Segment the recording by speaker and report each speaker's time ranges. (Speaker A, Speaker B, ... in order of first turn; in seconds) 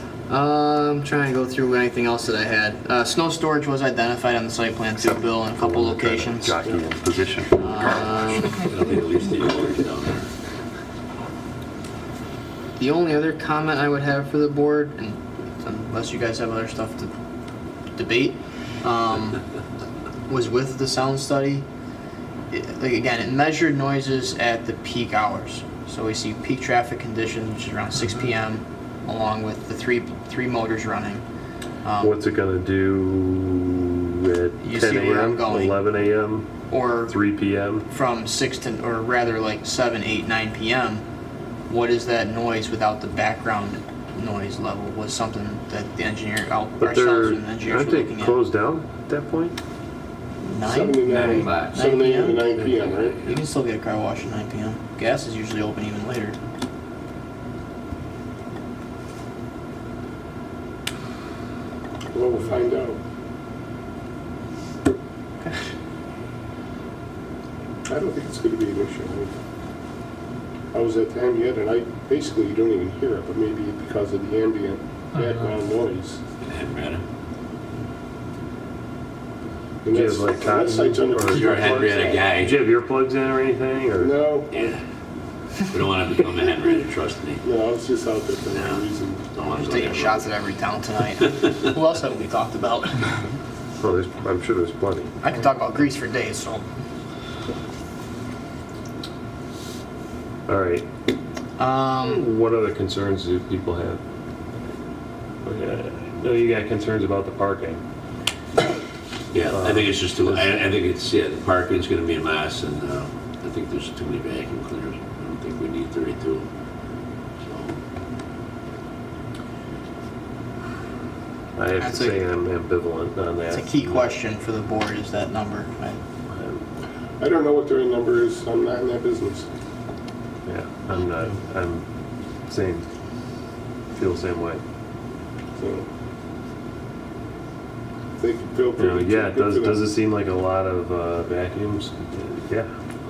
Speaker A: 0.3-6.6, 7.6-8.6, 12.8-17.1, 17.9-19.4, 20.3-21.6, 22.5-31.2, 31.8-32.2, 34.6-35.9, 36.7-37.1, 37.9-41.0, 41.7-48.4, 50.4-56.4, 89.5-93.3, 95.2-96.7, 101.6-102.2, 121.8-122.2, 123.5-126.0
Speaker B: 5.0-8.6, 32.0-37.9, 46.8-49.5, 79.9-84.4, 93.8-95.1, 100.5-100.8, 102.0-104.0, 105.4-107.8, 109.5-110.6, 121.5-124.1, 126.3-126.6, 130.4-131.8, 132.5-132.9, 133.9-134.6, 138.8-142.7
Speaker C: 8.6-10.3, 51.0-51.8, 52.4-53.4, 76.4-77.0, 81.2-82.6, 84.5-84.8, 85.7-87.4, 88.5-90.3, 109.3-116.4, 117.4-117.8
Speaker D: 50.6-53.2, 62.1-63.0, 67.9-69.3, 70.7-76.2, 79.8-82.2, 84.0-84.5, 87.4-89.3, 127.2-129.4, 135.6-135.8, 138.2-139.9